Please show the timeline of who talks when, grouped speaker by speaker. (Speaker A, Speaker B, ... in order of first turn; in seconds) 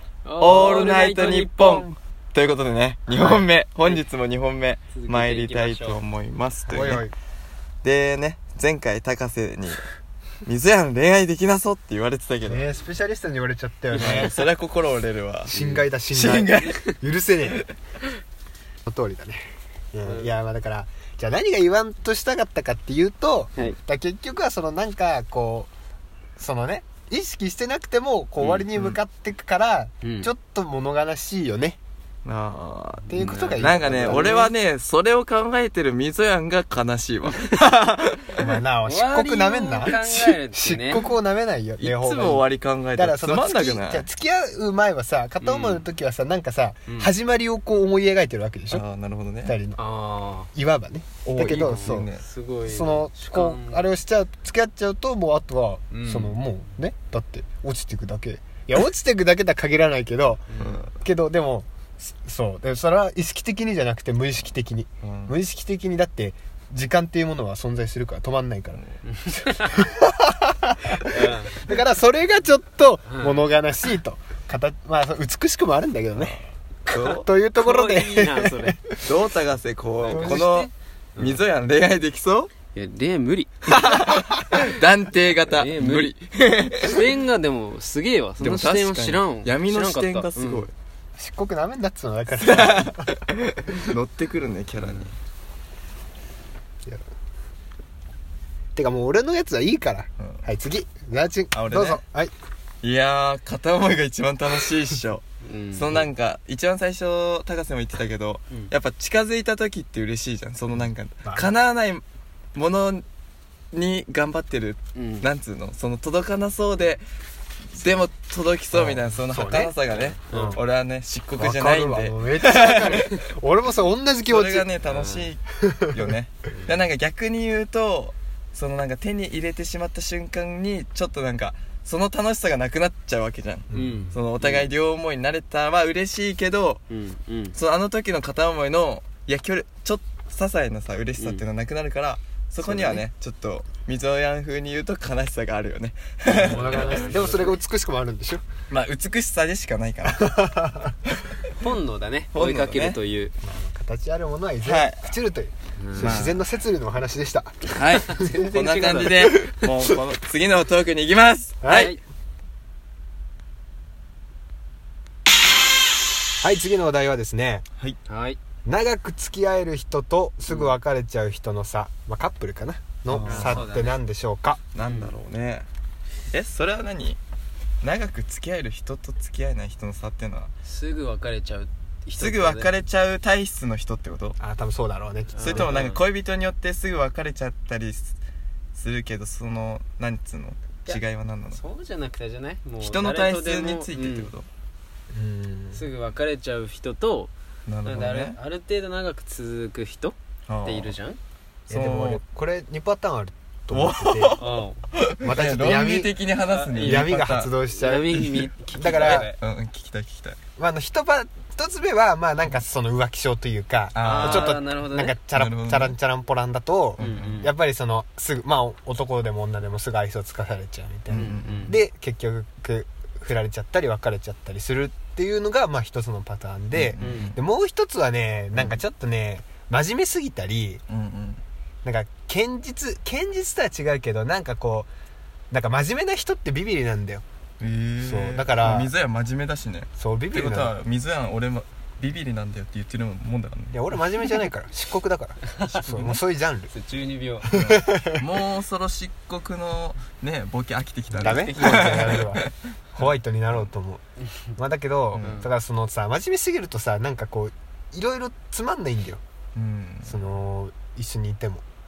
Speaker A: 0.2-1.9, 3.1-4.0, 4.9-6.0, 16.6-17.0, 30.0-30.3, 33.1-34.5, 38.9-41.0, 45.4-45.9, 49.8-50.5, 51.4-53.9, 55.9-56.4, 60.5-60.9, 69.1-69.8, 71.1-71.6, 73.1-73.4, 77.6-78.8, 80.0-81.4, 82.7-83.8, 85.5-86.2, 86.8-90.7, 105.4-106.0, 115.0-115.3, 119.9-120.6, 124.9-125.3, 133.7-134.7, 136.9-137.6, 141.2-141.4, 146.4-147.5, 151.5-153.3, 155.8-156.2, 161.7-162.0, 168.1-168.4, 173.3-174.0, 174.8-175.1, 180.7-182.7, 185.4-186.0, 191.5-194.3, 195.7-197.3, 197.8-201.2, 204.4-204.8, 206.4-207.1, 207.8-209.4, 214.0-215.2, 217.0-217.5, 221.1-221.8, 227.0-227.4, 246.7-247.6, 251.2-251.9, 255.2-255.5
Speaker B: 0.4-7.0, 7.8-9.8, 10.4-12.7, 13.9-16.8, 28.7-29.0, 32.2-38.6, 41.8-44.1, 48.7-49.6, 51.2-52.2, 60.6-60.9, 65.0-65.4, 76.1-77.3, 79.0-82.5, 83.7-87.0, 88.4-90.7, 92.4-95.1, 100.2-100.5, 101.5-102.0, 102.8-112.0, 112.5-113.0, 113.7-117.0, 117.7-123.2, 124.3-136.8, 137.6-147.3, 148.7-150.4, 152.3-153.0, 154.6-155.1, 156.0-156.4, 157.7-161.9, 173.1-173.7, 174.7-175.7, 176.3-177.2, 177.8-180.5, 182.2-184.4, 185.4-188.2, 188.8-191.6, 192.8-194.5, 197.7-198.4, 200.5-200.9, 201.7-202.2, 203.7-207.5, 208.1-210.4, 213.9-214.6, 215.3-215.9, 217.0-217.4, 221.1-221.8, 226.7-227.4, 228.5-228.8, 230.9-231.4, 237.6-243.8, 245.7-246.2, 247.5-252.5, 255.1-255.4, 259.6-260.2
Speaker C: 6.7-7.1, 12.4-14.5, 15.5-17.6, 18.9-19.4, 19.9-25.7, 26.4-31.8, 33.1-34.5, 38.4-48.8, 49.5-49.8, 50.5-52.1, 52.6-60.5, 61.0-68.8, 69.8-76.4, 76.9-79.0, 80.1-80.5, 91.2-93.1, 98.8-102.3, 111.2-111.5, 118.7-119.8, 120.3-120.6, 121.4-124.7, 125.6-126.0, 133.7-134.1, 142.6-143.0, 146.3-148.4, 150.1-150.9, 153.4-159.7, 161.6-161.9, 166.4-167.7, 168.7-174.6, 184.4-185.8, 195.1-195.9, 201.7-204.4, 205.2-206.1, 206.8-208.2, 208.8-209.3, 210.6-230.8, 231.8-234.9, 235.5-237.2, 238.0-238.9, 240.0-240.8, 243.7-246.7, 247.5-248.2, 251.2-254.0, 254.6-259.2, 260.1-261.6